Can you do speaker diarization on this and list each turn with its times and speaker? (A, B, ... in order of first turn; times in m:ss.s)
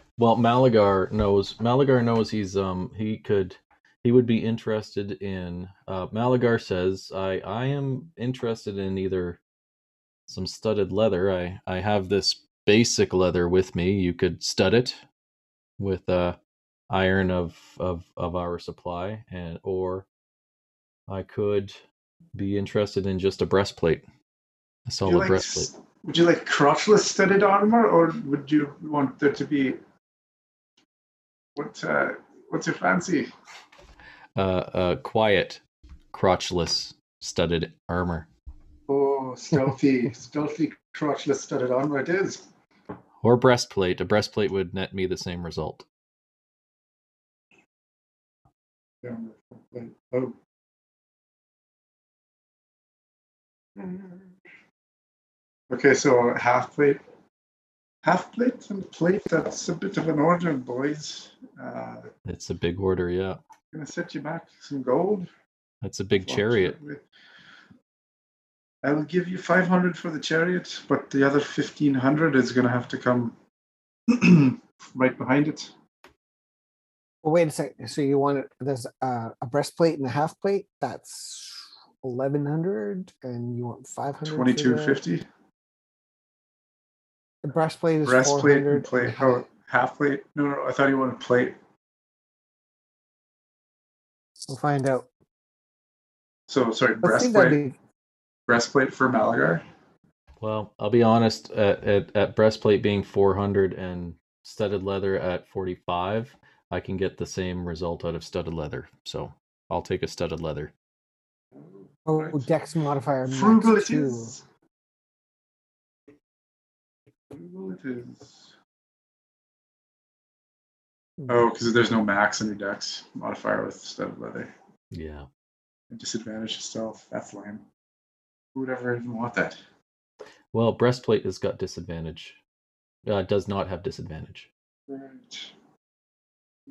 0:00.2-0:09.4 A
0:10.3-0:15.0 A
0:15.8-0:16.4 A
0:16.9-0:20.0 A
0:21.1-0:21.8 A
0:22.3-0:24.0 A
0:24.9-0:25.7 A
0:25.0-0:29.8 B
0:31.6-0:33.3 B
0:34.4-0:35.6 A
0:36.1-0:38.3 A
0:38.9-0:42.5 B
0:43.2-0:45.9 A
0:49.0-0:50.4 B
0:53.8-0:54.3 B
0:55.7-0:57.0 B
0:58.0-1:02.1 B
1:02.3-1:03.4 A
1:03.7-1:05.3 B
1:05.8-1:06.8 A
1:06.2-1:07.0 B
1:08.8-1:13.4 B
1:14.1-1:15.7 B
1:17.2-1:25.0 C
1:24.2-1:25.3 B
1:27.4-1:29.4 C
1:28.0-1:31.6 B
1:34.5-1:35.1 C
1:36.5-1:37.6 B
1:37.0-1:37.8 C
1:38.5-1:39.6 B
1:40.4-1:50.7 A
1:51.6-1:52.5 B
1:52.1-1:54.4 C
1:53.3-1:54.4 B
1:57.3-1:58.5 B
2:01.3-2:04.5 B
2:04.9-2:05.3 A
2:05.9-2:07.6 B
2:08.6-2:09.6 B
2:10.5-2:12.4 A
2:13.0-2:14.5 A
2:14.9-2:15.5 B